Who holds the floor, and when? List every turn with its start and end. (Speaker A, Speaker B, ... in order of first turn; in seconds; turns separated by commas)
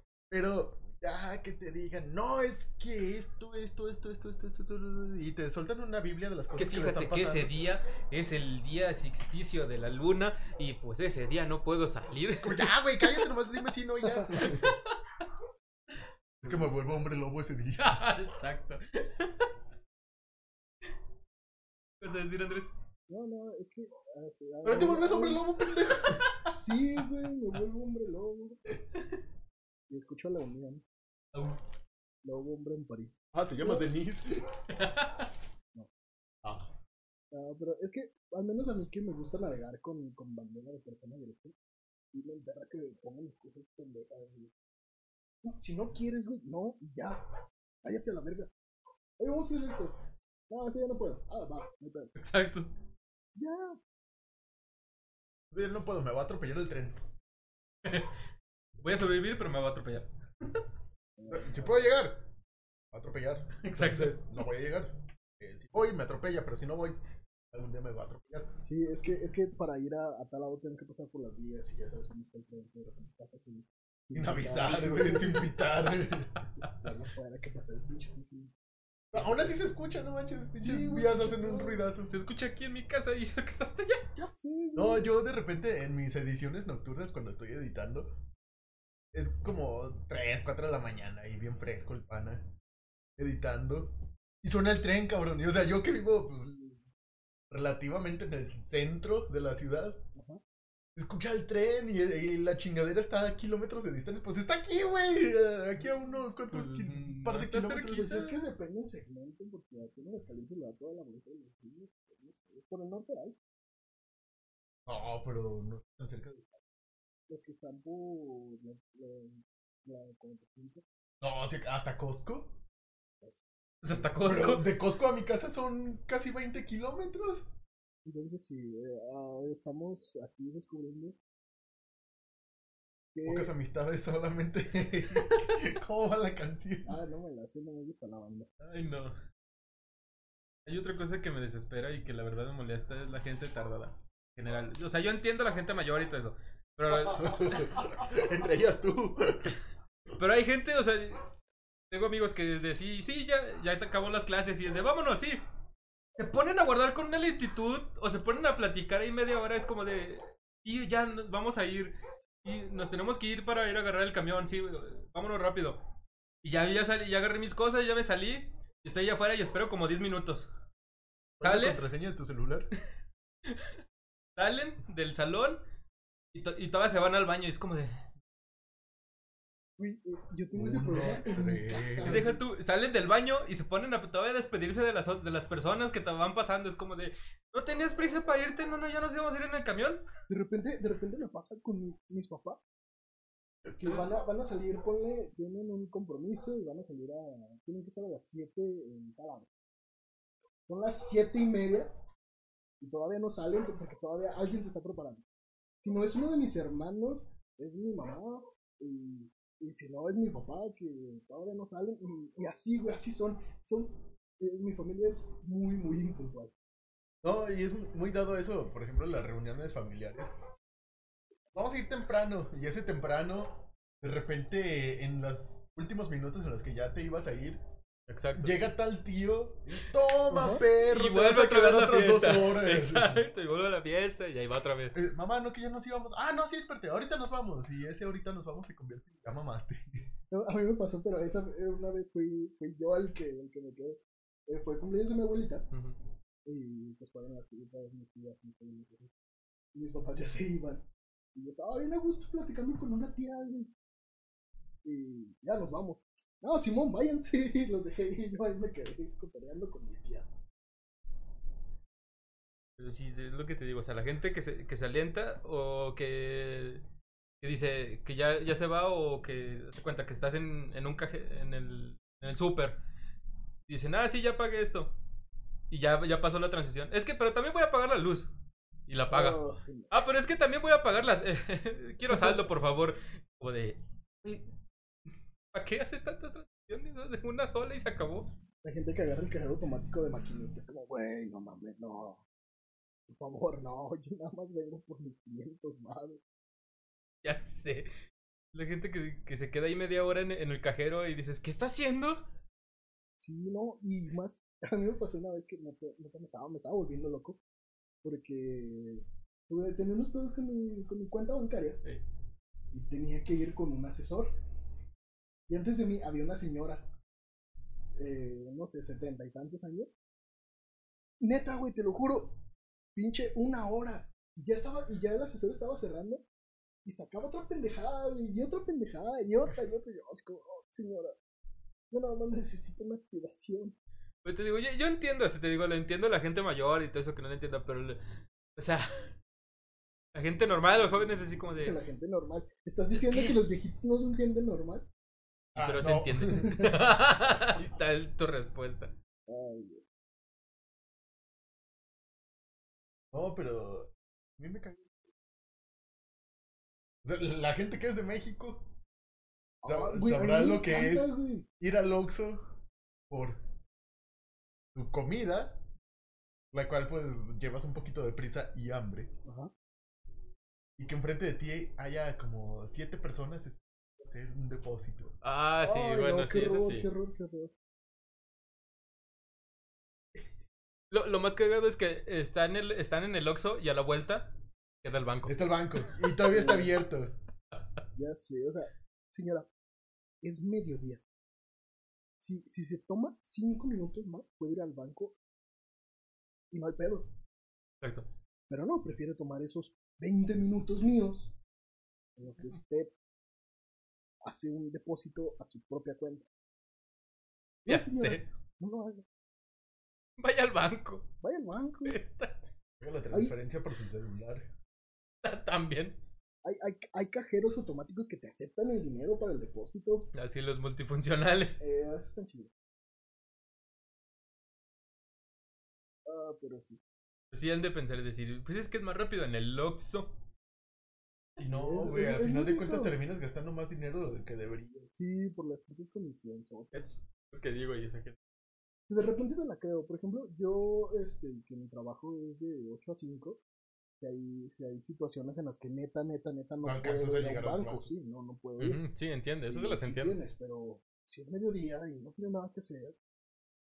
Speaker A: 0.3-7.5, Speaker B: 6.5-13.3, Speaker A: 12.4-14.8, Speaker C: 14.0-14.3, Speaker B: 14.3-15.0, Speaker A: 16.4-18.0, Speaker B: 17.8-19.5, Speaker B: 22.0-22.7, Speaker C: 23.1-25.4, Speaker A: 24.6-26.3, Speaker B: 25.8-26.5, Speaker C: 26.5-28.6, Speaker C: 29.9-30.8, Speaker C: 32.2-33.9, Speaker A: 33.3-34.6, Speaker B: 34.7-35.3, Speaker A: 36.4-36.7, Speaker C: 37.3-41.5, Speaker C: 42.1-44.5, Speaker C: 45.4-47.2, Speaker C: 47.8-48.5, Speaker C: 49.2-50.0, Speaker C: 50.5-52.1, Speaker B: 52.1-52.7, Speaker C: 53.4-53.8, Speaker A: 55.5-57.0, Speaker B: 57.8-58.2, Speaker B: 58.8-60.6, Speaker C: 61.2-61.9, Speaker A: 61.3-62.2, Speaker A: 62.9-67.0, Speaker B: 63.6-64.2, Speaker A: 67.5-68.5, Speaker C: 68.6-75.5, Speaker A: 74.2-76.3, Speaker C: 76.6-78.5, Speaker A: 79.1-82.1, Speaker C: 80.6-81.8, Speaker B: 82.1-84.1, Speaker C: 84.2-85.1, Speaker A: 84.8-88.2, Speaker A: 89.1-92.5, Speaker A: 93.2-96.8, Speaker A: 97.5-100.0, Speaker C: 100.2-100.4, Speaker A: 100.9-108.1, Speaker B: 106.5-108.3, Speaker C: 107.9-113.4, Speaker A: 114.8-116.6, Speaker C: 117.3-120.8, Speaker A: 121.2-122.6, Speaker C: 123.2-124.0, Speaker B: 123.8-124.7, Speaker A: 124.2-127.5, Speaker C: 128.0-131.2, Speaker C: 133.1-133.5, Speaker A: 133.2-137.0, Speaker B: 135.2-135.5, Speaker C: 136.8-138.5, Speaker B: 138.6-139.2, Speaker B: 140.7-147.4, Speaker A: 147.1-149.6, Speaker B: 150.2-151.2, Speaker B: 151.9-155.4, Speaker B: 156.2-165.8, Speaker B: 166.4-170.5, Speaker A: 171.4-172.7, Speaker B: 171.4-171.8, Speaker B: 173.4-173.8, Speaker B: 174.3-175.6, Speaker B: 176.3-178.0, Speaker C: 179.8-182.4, Speaker A: 180.5-182.3, Speaker B: 182.1-190.0, Speaker C: 190.3-192.6, Speaker C: 193.8-199.5, Speaker C: 200.7-201.9, Speaker C: 202.8-205.2, Speaker C: 205.8-216.5, Speaker A: 217.2-220.3, Speaker A: 221.5-227.6, Speaker B: 228.1-228.6, Speaker A: 228.4-233.2, Speaker C: 230.3-230.6, Speaker B: 230.8-235.0, Speaker A: 234.9-240.1, Speaker C: 240.3-245.7, Speaker C: 246.4-249.1, Speaker C: 249.7-253.7, Speaker C: 254.8-260.3, Speaker B: 262.8-266.8, Speaker B: 267.4-272.8, Speaker B: 273.7-274.9, Speaker B: 275.7-278.3, Speaker B: 278.9-279.4, Speaker C: 279.1-279.9, Speaker B: 279.9-284.5, Speaker C: 282.1-282.5, Speaker B: 285.5-288.3, Speaker C: 288.6-292.2, Speaker C: 293.1-296.2, Speaker B: 297.2-297.9, Speaker B: 298.5-302.2, Speaker C: 303.2-307.4, Speaker C: 308.0-311.8, Speaker C: 312.7-314.3, Speaker C: 315.5-316.9, Speaker C: 318.0-319.9, Speaker C: 321.2-322.4, Speaker C: 322.9-326.2, Speaker C: 326.8-331.2, Speaker C: 331.9-333.7, Speaker B: 334.2-339.1, Speaker B: 340.1-341.8, Speaker C: 341.6-344.9, Speaker B: 342.9-343.4, Speaker A: 345.5-346.8, Speaker B: 345.6-348.9, Speaker C: 349.3-349.8, Speaker A: 353.1-355.0, Speaker A: 357.0-358.8, Speaker C: 359.6-361.5, Speaker A: 359.6-362.4, Speaker A: 363.1-363.4, Speaker A: 364.7-365.6, Speaker A: 366.5-369.1, Speaker C: 369.2-369.5, Speaker A: 370.8-375.1, Speaker B: 375.2-376.9, Speaker C: 375.6-377.5, Speaker B: 380.9-385.3, Speaker A: 385.3-387.1, Speaker C: 386.3-386.7, Speaker C: 387.9-389.5, Speaker C: 390.2-391.0, Speaker C: 392.2-395.2, Speaker C: 396.5-397.1, Speaker B: 397.8-398.1, Speaker C: 398.5-401.3, Speaker C: 402.2-402.9, Speaker C: 404.2-406.3, Speaker C: 407.6-409.1, Speaker B: 407.7-408.2, Speaker B: 410.2-411.1, Speaker C: 411.2-412.0, Speaker B: 411.8-412.4, Speaker A: 412.8-414.5, Speaker B: 415.2-416.0, Speaker C: 416.4-420.1, Speaker B: 420.1-421.6, Speaker C: 421.6-422.5, Speaker C: 426.1-426.8, Speaker B: 427.3-430.2, Speaker A: 431.4-434.9, Speaker C: 431.4-432.9, Speaker C: 434.9-436.9, Speaker B: 436.7-438.2, Speaker C: 438.9-443.4, Speaker C: 444.0-448.8, Speaker A: 446.6-447.9, Speaker B: 448.6-450.1, Speaker C: 449.5-453.0